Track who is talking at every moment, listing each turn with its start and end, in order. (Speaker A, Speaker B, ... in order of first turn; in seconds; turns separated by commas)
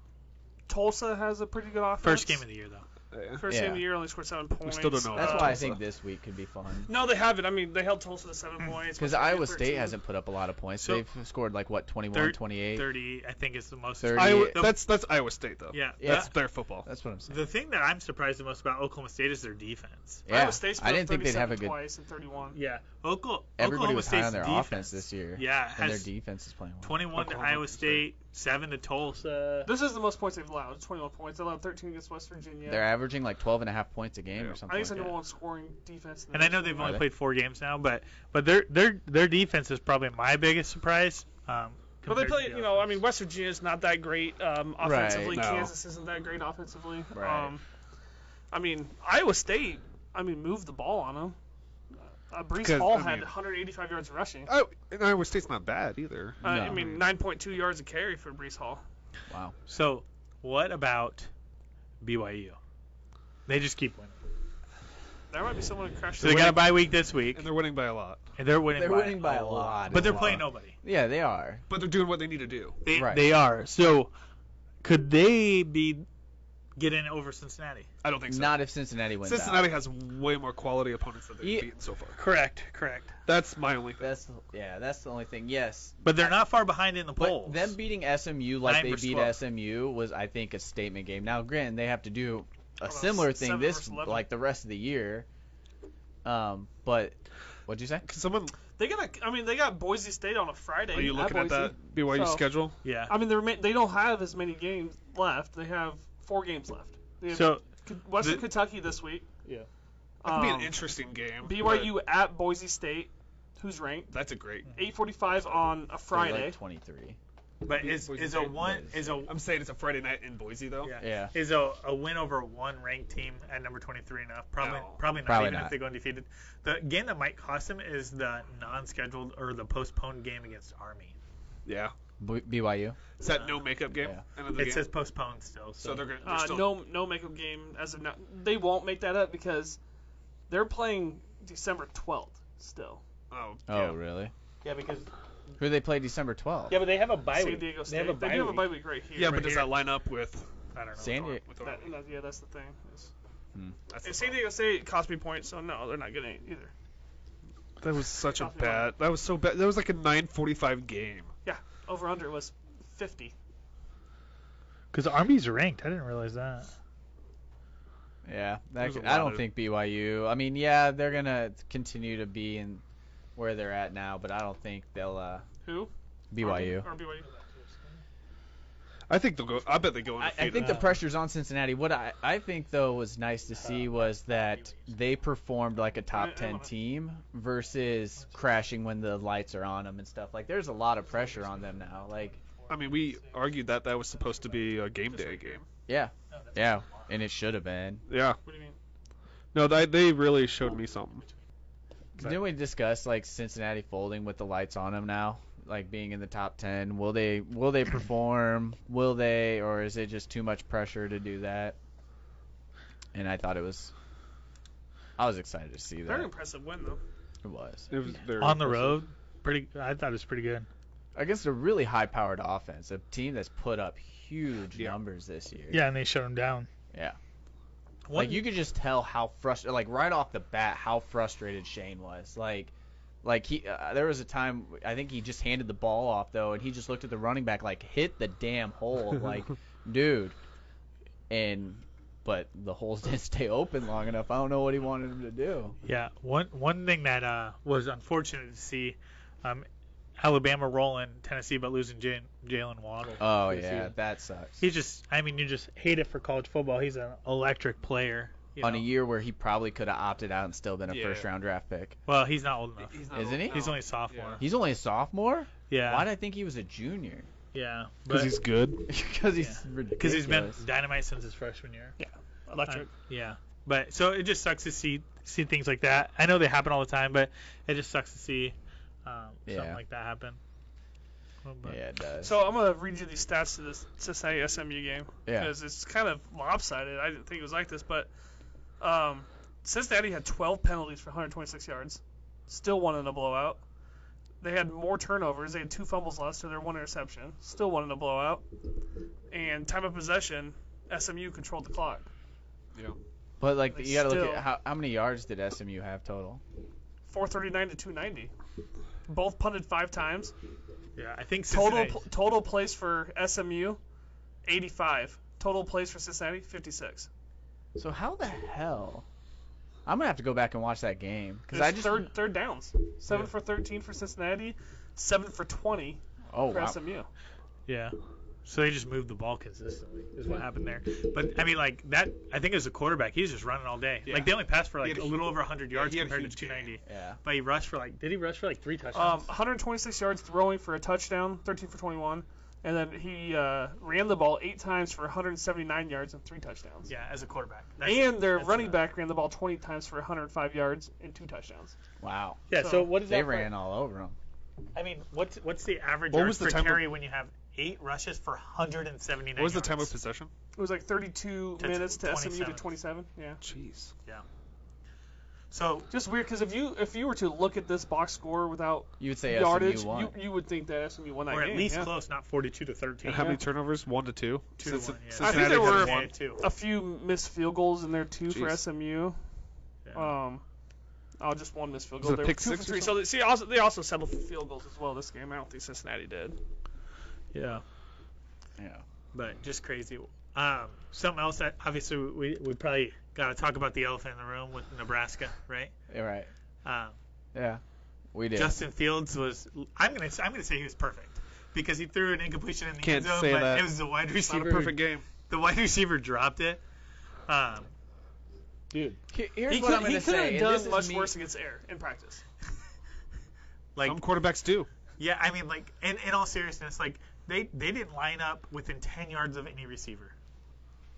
Speaker A: 0.7-2.4, Speaker B: 2.0-2.9, Speaker C: 3.1-3.5, Speaker A: 3.4-5.7, Speaker D: 3.5-3.9, Speaker C: 4.6-5.8, Speaker D: 5.1-6.9, Speaker A: 6.9-10.0, Speaker D: 9.0-12.9, Speaker B: 12.1-14.8, Speaker D: 14.0-14.7, Speaker C: 14.1-16.9, Speaker B: 15.7-16.3, Speaker D: 16.0-16.3, Speaker D: 16.8-17.4, Speaker B: 17.3-20.2, Speaker D: 20.3-21.8, Speaker A: 20.3-22.6, Speaker B: 22.5-26.1, Speaker D: 23.6-27.7, Speaker B: 26.8-29.7, Speaker A: 29.7-32.9, Speaker D: 32.7-35.2, Speaker A: 34.7-37.0, Speaker B: 36.3-42.9, Speaker D: 36.8-37.1, Speaker A: 42.0-47.6, Speaker D: 44.8-45.5, Speaker C: 45.3-45.7, Speaker D: 47.1-47.5, Speaker A: 48.5-51.4, Speaker A: 52.3-54.5, Speaker C: 52.6-53.3, Speaker C: 54.5-56.4, Speaker D: 56.4-57.0, Speaker A: 56.4-58.8, Speaker D: 59.3-59.5, Speaker B: 59.7-61.3, Speaker B: 62.0-62.6, Speaker B: 63.5-64.2, Speaker A: 65.3-66.7, Speaker B: 66.2-67.5, Speaker C: 67.3-68.2, Speaker B: 68.4-70.8, Speaker D: 68.8-71.6, Speaker C: 69.8-70.4, Speaker C: 71.7-72.8, Speaker B: 72.8-74.1, Speaker D: 72.9-73.3, Speaker B: 74.8-76.1, Speaker B: 76.8-77.9, Speaker C: 78.0-78.6, Speaker D: 78.3-79.7, Speaker C: 79.2-82.2, Speaker D: 81.4-81.7, Speaker B: 82.2-83.2, Speaker C: 83.3-84.1, Speaker D: 84.0-86.4, Speaker B: 86.0-87.8, Speaker D: 87.2-95.3, Speaker B: 88.6-89.4, Speaker A: 92.8-94.3, Speaker D: 96.2-97.2, Speaker D: 97.7-98.1, Speaker C: 98.0-98.5, Speaker A: 98.8-102.5, Speaker C: 100.9-102.8, Speaker B: 102.8-103.2, Speaker A: 103.1-109.3, Speaker B: 107.3-107.7, Speaker B: 108.2-108.5, Speaker A: 110.2-110.8, Speaker C: 110.2-112.0, Speaker A: 111.4-116.6, Speaker C: 114.1-114.7, Speaker D: 116.1-117.2, Speaker B: 117.6-119.3, Speaker C: 117.7-120.9, Speaker B: 120.8-131.2, Speaker D: 121.0-121.3, Speaker C: 124.6-125.0, Speaker D: 125.2-125.8, Speaker C: 131.7-131.9, Speaker D: 132.2-133.0, Speaker C: 133.2-134.9, Speaker B: 133.3-133.7, Speaker B: 134.5-136.2, Speaker C: 135.8-136.8, Speaker A: 136.2-139.8, Speaker A: 140.5-143.0, Speaker C: 143.3-144.0, Speaker D: 143.7-144.3, Speaker B: 144.6-145.1, Speaker D: 145.6-146.8, Speaker B: 146.7-149.8, Speaker A: 147.3-149.5, Speaker C: 149.2-150.5, Speaker B: 150.7-151.4, Speaker D: 151.0-151.4, Speaker C: 151.4-152.0, Speaker A: 151.6-153.1, Speaker C: 153.9-154.4, Speaker A: 154.0-156.7, Speaker C: 157.8-161.3, Speaker A: 158.3-158.9, Speaker A: 161.4-163.3, Speaker B: 164.9-166.7, Speaker D: 168.2-172.8, Speaker C: 168.8-169.5, Speaker D: 173.4-175.4, Speaker A: 175.7-177.3, Speaker D: 176.3-176.9, Speaker B: 177.2-177.7, Speaker C: 179.1-180.9, Speaker D: 180.2-192.4, Speaker B: 180.6-180.9, Speaker B: 183.7-184.9, Speaker A: 186.1-186.7, Speaker B: 191.2-193.4, Speaker C: 192.7-195.7, Speaker A: 195.0-195.6, Speaker D: 195.9-198.0, Speaker B: 196.3-197.1, Speaker C: 198.1-198.4, Speaker A: 198.4-198.8, Speaker C: 199.5-201.3, Speaker D: 202.2-211.8, Speaker D: 213.1-213.9, Speaker D: 215.2-216.3, Speaker A: 216.1-217.0, Speaker D: 217.4-217.9, Speaker C: 217.9-219.0, Speaker B: 218.4-220.7, Speaker D: 221.2-225.8, Speaker B: 225.7-226.7, Speaker D: 226.9-227.2, Speaker B: 228.1-228.5, Speaker D: 228.1-232.7, Speaker D: 233.2-240.4, Speaker D: 241.3-245.8, Speaker B: 245.8-249.7, Speaker B: 250.2-253.9, Speaker D: 253.2-254.6, Speaker B: 254.6-258.9, Speaker D: 258.6-262.0, Speaker C: 260.9-261.3, Speaker B: 262.1-264.4, Speaker C: 262.8-264.4, Speaker D: 263.1-263.7, Speaker D: 264.4-267.3, Speaker B: 265.7-266.1, Speaker B: 267.5-268.4, Speaker C: 268.1-268.9, Speaker D: 268.9-270.6, Speaker B: 269.4-272.0, Speaker A: 272.0-272.9, Speaker B: 272.7-280.4, Speaker D: 279.5-279.8, Speaker B: 281.4-281.8, Speaker D: 281.6-282.4, Speaker A: 282.2-288.1, Speaker D: 285.3-285.5, Speaker A: 288.8-293.6, Speaker A: 294.4-298.5, Speaker A: 299.3-302.1, Speaker D: 303.4-306.4, Speaker A: 303.7-304.5, Speaker A: 307.1-308.3, Speaker A: 309.1-310.3, Speaker B: 311.0-312.0, Speaker A: 311.5-313.8, Speaker A: 314.4-317.1, Speaker D: 317.8-319.1, Speaker D: 319.9-322.1, Speaker A: 321.5-327.1, Speaker D: 326.3-326.8, Speaker B: 327.7-339.3, Speaker C: 334.1-336.7, Speaker D: 336.9-337.2, Speaker A: 338.9-346.9, Speaker B: 346.9-348.8, Speaker A: 347.8-351.8, Speaker D: 352.0-354.2, Speaker B: 352.5-353.5, Speaker A: 352.6-352.9, Speaker B: 354.8-359.9, Speaker C: 356.1-356.9, Speaker C: 359.4-360.3, Speaker A: 360.6-363.4, Speaker B: 361.6-362.7, Speaker C: 363.4-363.9, Speaker B: 365.5-365.9, Speaker A: 365.9-371.9, Speaker D: 369.0-370.2, Speaker B: 371.3-373.4, Speaker C: 373.0-376.1, Speaker B: 374.6-376.4, Speaker A: 375.2-379.2, Speaker C: 378.3-378.6, Speaker B: 379.9-380.1, Speaker A: 379.9-380.4, Speaker A: 381.2-386.4, Speaker C: 382.0-383.0, Speaker B: 387.3-387.6, Speaker D: 388.6-388.8, Speaker B: 389.1-395.7, Speaker D: 395.9-396.3, Speaker B: 396.6-396.9, Speaker D: 397.4-397.6, Speaker D: 398.1-398.6, Speaker B: 398.3-406.6, Speaker C: 402.8-405.1, Speaker B: 407.3-407.7, Speaker B: 408.7-409.0, Speaker D: 409.1-411.1, Speaker A: 409.5-412.2, Speaker B: 413.8-414.0, Speaker C: 413.8-414.7, Speaker B: 415.0-420.1